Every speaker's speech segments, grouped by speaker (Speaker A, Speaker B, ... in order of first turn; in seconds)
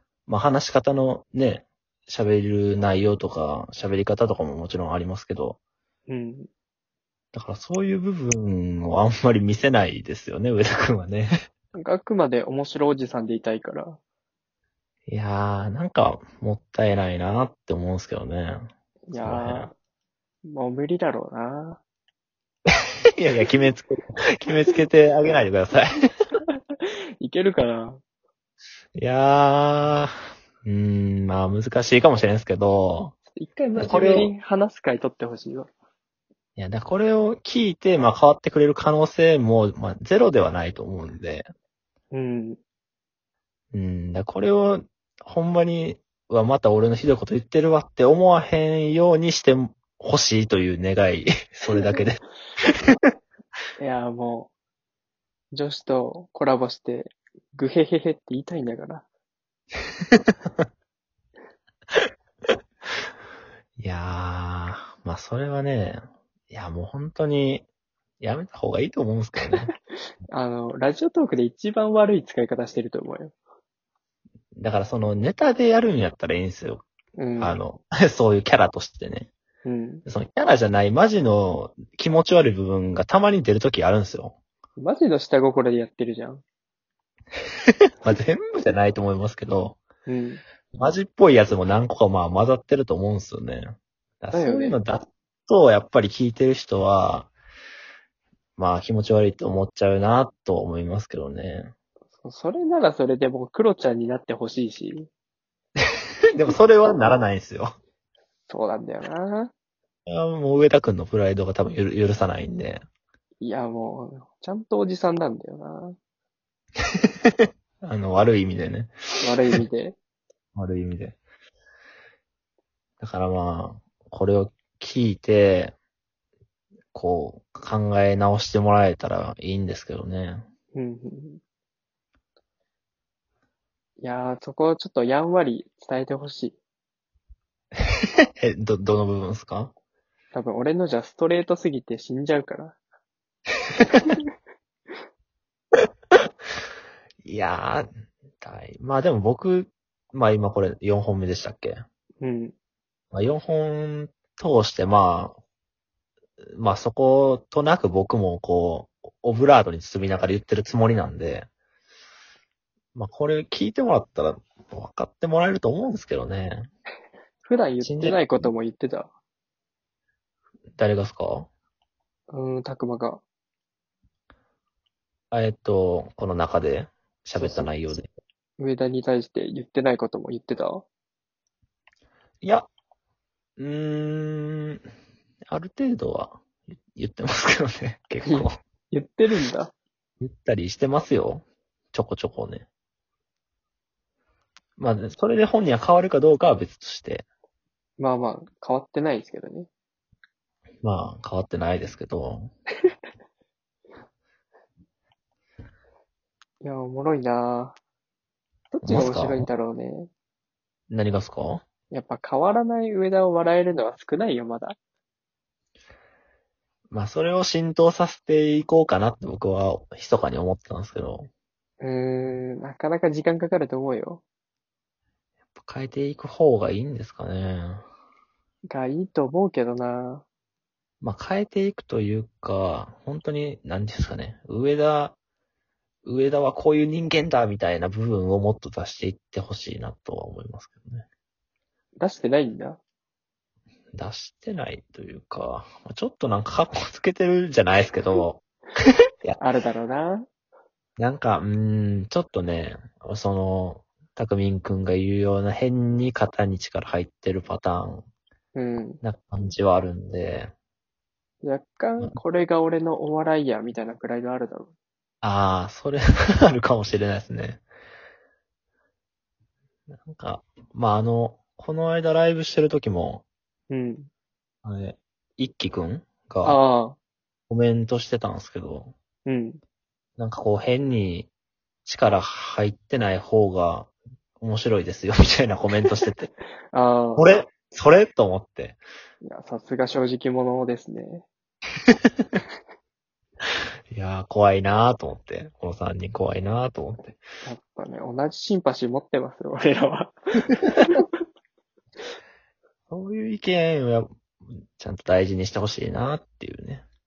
Speaker A: 0.3-5.6, 7.3-11.3, 15.1-19.7, 22.7-25.9, 28.9-33.1, 33.8-34.3, 36.6-41.5, 43.7-53.0, 60.1-60.6, 63.8-66.0, 66.5-67.7, 68.2-69.7, 74.6-76.8, 77.4-79.3, 80.0-84.3, 88.0-89.8, 90.7-97.3, 98.6-101.7, 106.3-107.7, 110.0-112.8, 117.8-119.6, 120.5-121.2, 123.0-125.7, 126.9-130.4, 137.9-139.7, 143.8-144.2, 147.2-147.9, 148.4-151.8, 153.1-155.3, 156.4-161.5, 162.9-166.7, 167.8-168.5, 170.8-171.5, 175.3-178.1, 182.4-182.7, 183.6-184.8, 185.5-188.6, 190.2-192.7, 194.8-197.2, 200.8-202.5, 208.8-209.5, 210.9-211.6, 216.9-221.3, 225.5-227.8, 231.0-235.2, 236.0-241.1, 243.9-248.4, 251.0-258.1, 259.0-260.5, 265.2-267.6, 269.9-273.2, 274.6-276.6, 277.5-278.9, 280.2-281.3, 281.8-286.3, 287.1-288.8, 291.9-292.3, 293.9-297.2, 302.9-306.8
Speaker B: 6.1-6.5, 11.7-14.0, 19.1-19.7, 20.4-21.8, 27.2-28.0, 33.3-35.7, 42.1-42.6, 53.8-54.5, 55.5-59.0, 70.3-73.3, 77.2-77.5, 79.6-80.0, 84.8-86.4, 90.1-90.4, 94.3-94.8, 102.2-105.1, 108.5-109.5, 113.4-116.0, 119.2-120.0, 130.7-131.4, 134.0-136.6, 140.3-142.8, 152.2-152.5, 167.4-169.1, 172.3-173.2, 177.4-177.7, 178.6-180.8, 188.2-189.7, 198.0-199.7, 206.6-207.8, 208.7-210.1, 211.9-214.8, 221.8-224.2, 228.7-230.2, 242.0-242.8, 249.4-250.3, 258.5-259.0, 261.4-264.7, 273.7-274.1, 276.4-277.0, 279.2-279.6, 286.7-287.3, 289.2-291.2, 297.4-301.0